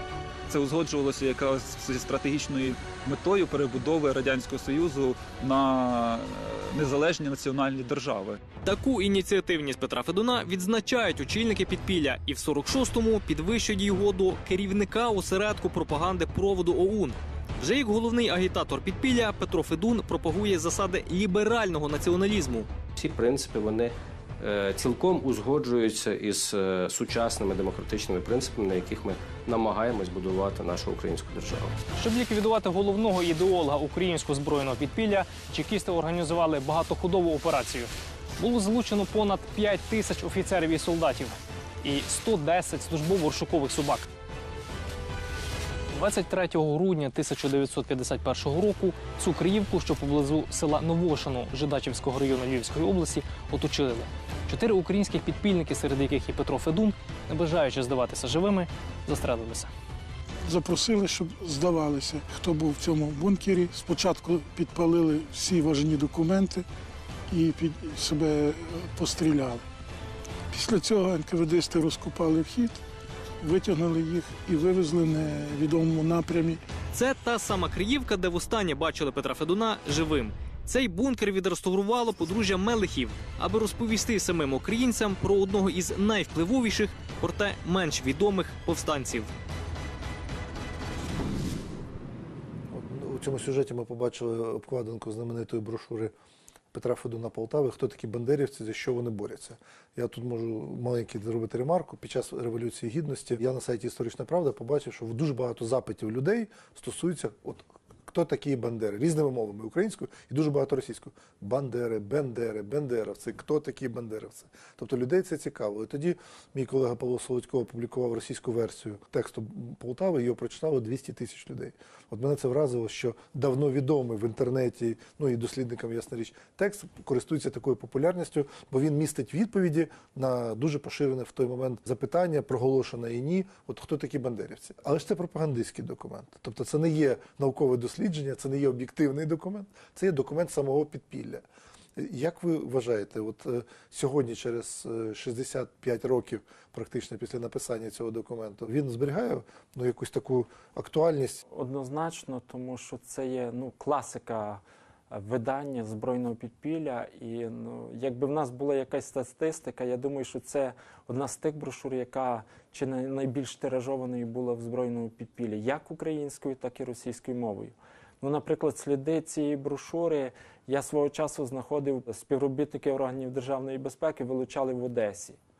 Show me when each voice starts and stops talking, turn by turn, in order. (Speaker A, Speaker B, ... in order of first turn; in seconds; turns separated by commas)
Speaker A: 0.5-8.4, Speaker B: 8.6-22.7, Speaker C: 23.0-31.8, Speaker B: 32.0-44.1, Speaker B: 45.9-59.7, Speaker D: 60.4-66.7, Speaker D: 67.3-69.7, Speaker D: 70.5-72.8, Speaker D: 73.4-76.6, Speaker B: 76.9-89.3, Speaker E: 92.7-96.1, Speaker E: 96.7-141.4, Speaker E: 142.0-151.4, Speaker F: 151.5-175.4